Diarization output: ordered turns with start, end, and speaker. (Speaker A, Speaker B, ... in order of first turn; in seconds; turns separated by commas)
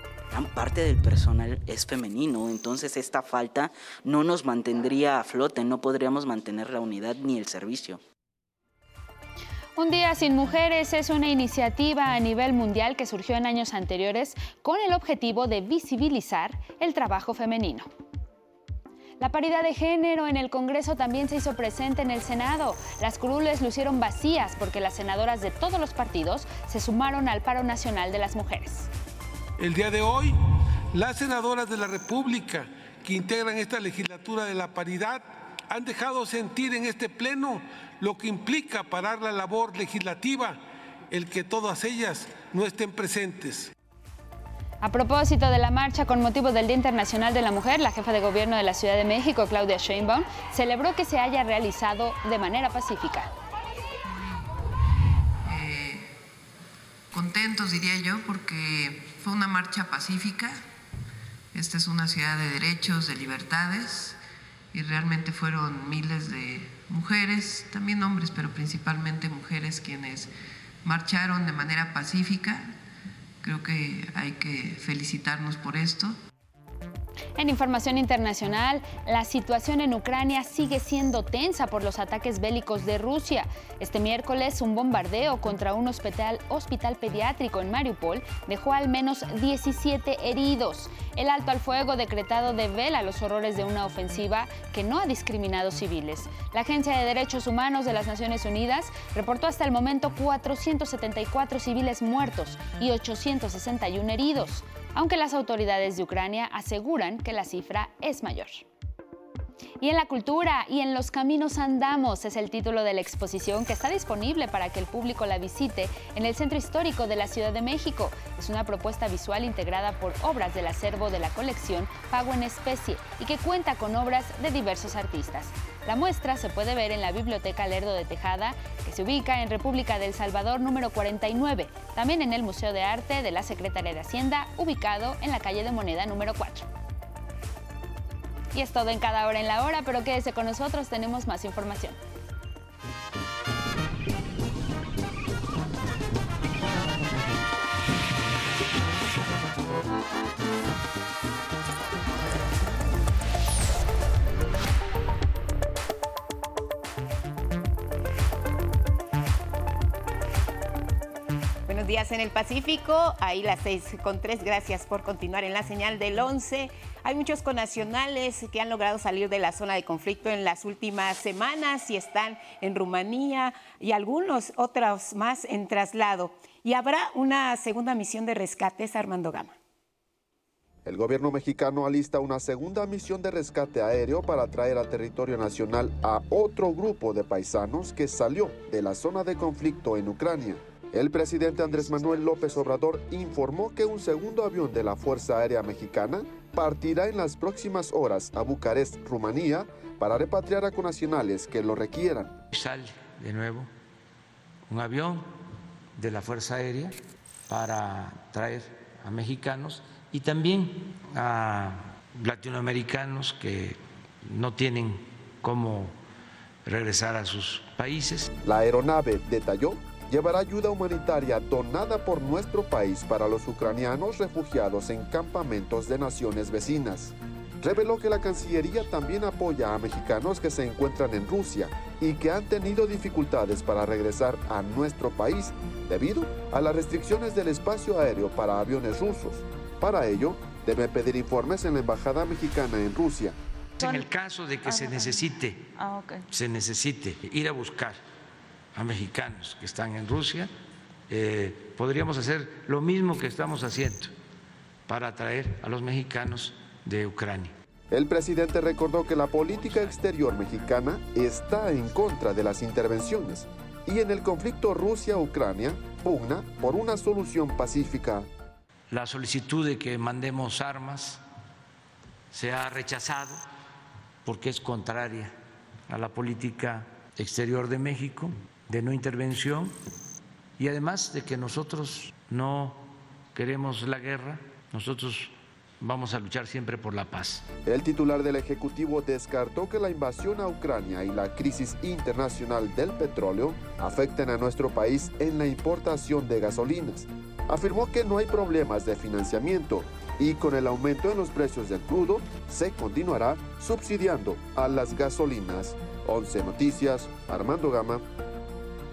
Speaker A: 0.3-8.0, Speaker B: 9.8-17.9, Speaker B: 19.2-28.9, Speaker C: 29.6-30.4, Speaker C: 30.9-43.7, Speaker B: 44.8-53.3, Speaker D: 55.5-56.1, Speaker D: 57.1-60.6, Speaker D: 61.5-64.2, Speaker D: 64.7-70.3, Speaker D: 70.8-72.8, Speaker D: 73.4-76.2, Speaker B: 77.4-108.7, Speaker B: 109.8-136.7, Speaker B: 138.5-142.0, Speaker E: 161.7-179.6, Speaker F: 180.8-202.4, Speaker G: 202.5-203.7, Speaker G: 204.7-205.3, Speaker G: 206.0-207.0, Speaker G: 207.5-216.0, Speaker G: 216.7-218.3, Speaker F: 218.4-243.4, Speaker G: 243.8-245.7, Speaker G: 246.3-248.0, Speaker G: 248.8-250.5, Speaker G: 251.1-254.1, Speaker G: 254.9-257.5, Speaker F: 257.9-268.3, Speaker G: 268.9-271.2, Speaker G: 272.3-273.4, Speaker G: 274.2-275.3, Speaker G: 275.9-279.8, Speaker G: 280.6-287.4, Speaker F: 287.6-308.0